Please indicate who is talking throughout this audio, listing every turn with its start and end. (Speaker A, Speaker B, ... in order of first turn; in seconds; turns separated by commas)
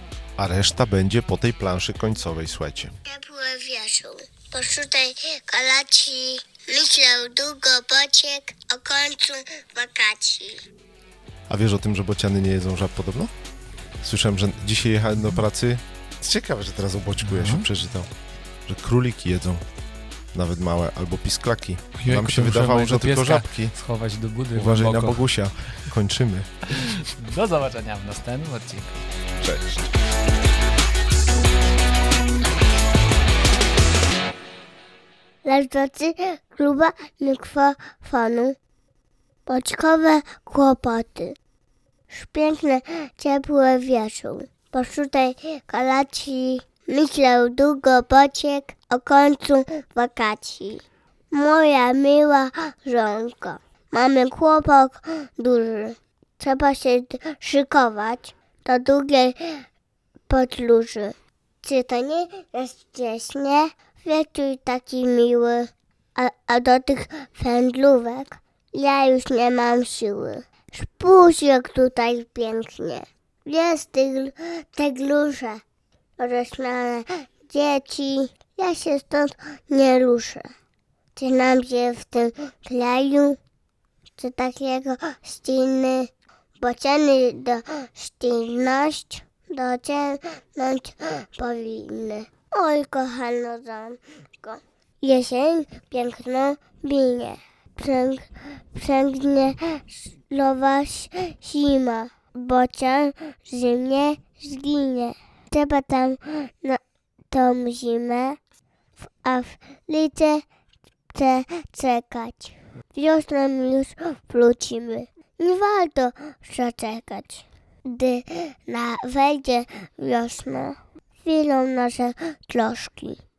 Speaker A: 0.4-2.9, Speaker B: 3.0-10.6, Speaker A: 11.5-13.3, Speaker A: 14.0-18.1, Speaker C: 17.2-17.7, Speaker A: 18.7-19.6, Speaker A: 20.3-23.8, Speaker C: 22.0-25.3, Speaker A: 24.5-26.7, Speaker C: 26.7-29.0, Speaker A: 29.4-29.8, Speaker B: 35.5-38.6, Speaker B: 39.5-41.4, Speaker B: 42.1-59.6, Speaker B: 60.3-75.6, Speaker B: 76.2-80.5, Speaker B: 81.2-83.4, Speaker B: 84.2-106.8, Speaker B: 107.3-108.4, Speaker B: 109.0-110.5, Speaker B: 111.1-123.2